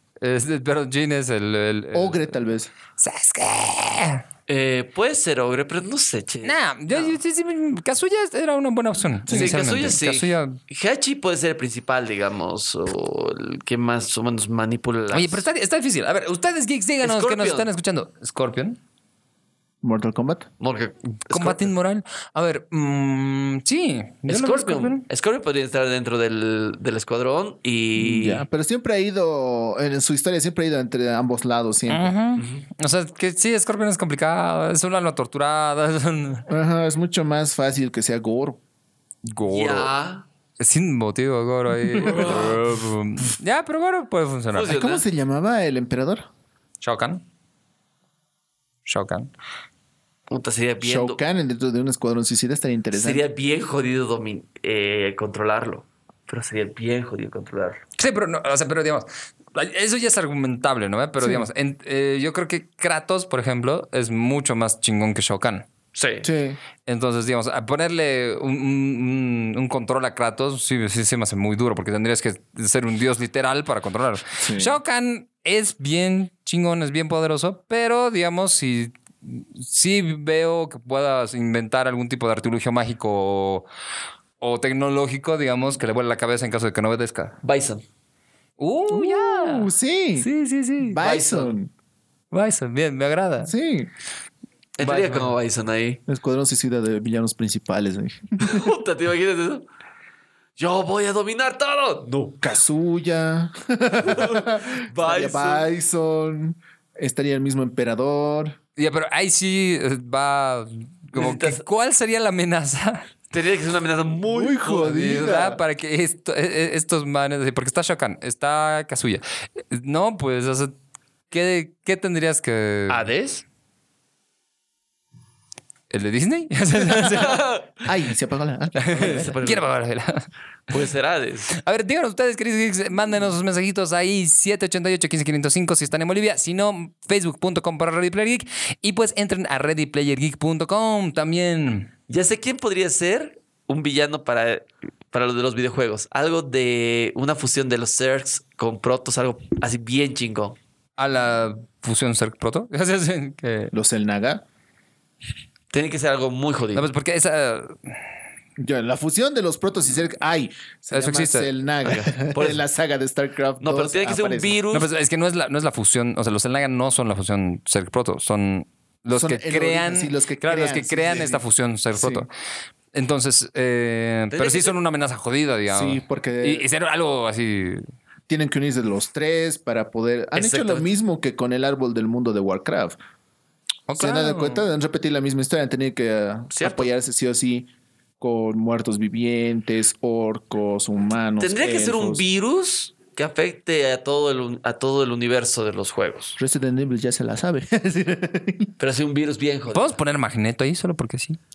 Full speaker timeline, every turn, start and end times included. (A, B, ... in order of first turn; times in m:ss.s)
0:00.2-0:02.4 A
0:01.9-0:02.7 B
0:03.0-0:04.2 A
0:04.5-0:07.2 C
0:06.4-0:10.6 A
0:09.2-0:09.6 B
0:09.3-0:15.4 C
0:15.1-0:18.8 A
0:17.0-0:17.7 C
0:19.8-0:20.5 B
0:20.6-0:21.7 C
0:21.3-0:25.0 A
0:24.3-0:28.4 C
0:28.0-0:32.1 B
0:31.9-0:36.5 A
0:32.4-0:32.7 C
0:36.5-0:38.6 B
0:39.2-0:39.9 A
0:39.5-0:40.2 C
0:40.6-0:44.8 A
0:41.9-0:42.5 B
0:42.0-0:42.6 C
0:44.5-0:45.0 C
0:44.7-0:46.3 B
0:46.8-0:47.2 A
0:48.8-0:49.3 A
0:50.3-0:51.2 C
0:50.8-0:53.2 B
0:52.9-0:57.8 C
0:58.0-1:05.7 A
1:01.2-1:01.5 B
1:05.9-1:06.3 C
1:06.2-1:06.6 B
1:06.8-1:23.7 A
1:14.4-1:14.8 B
1:24.4-1:27.4 A
1:27.4-1:27.8 C
1:28.6-1:31.0 A
1:28.9-1:30.3 B
1:30.8-1:31.7 B
1:31.0-1:31.5 C
1:32.3-1:33.5 A
1:33.4-1:33.9 B
1:34.8-1:36.0 C
1:34.8-1:35.3 A
1:36.1-1:38.7 B
1:38.4-1:39.6 C
1:40.6-1:42.4 C
1:42.4-1:48.6 B
1:44.0-1:45.7 C
1:48.8-1:53.1 A
1:51.1-1:51.6 C
1:53.3-1:55.3 C
1:54.3-1:55.6 B
1:54.8-2:00.7 A
2:01.3-2:03.0 A
2:02.9-2:03.4 C
2:05.9-2:07.4 A
2:06.8-2:07.8 C
2:07.8-2:09.3 B
2:08.8-2:10.3 A
2:08.9-2:09.7 C
2:10.7-2:11.5 C
2:11.5-2:21.9 A
2:22.1-2:30.6 C
2:31.0-2:33.7 A
2:33.7-2:34.4 B
2:35.7-2:36.9 C
2:36.7-2:37.9 A
2:38.6-2:44.6 B
2:40.9-2:41.5 A
2:41.8-2:42.6 C
2:43.6-2:44.9 C
2:44.7-2:52.3 A
2:49.1-2:51.4 B
2:51.9-2:52.2 B
2:52.9-2:57.8 A
2:54.3-2:54.7 C
2:55.7-2:56.7 B
2:58.3-3:03.0 B
3:00.3-3:00.9 C
3:03.9-3:04.6 A
3:04.0-3:12.2 B
3:06.5-3:06.9 C
3:11.4-3:16.4 C
3:16.4-3:18.7 B
3:18.8-3:19.9 C
3:19.7-3:21.4 A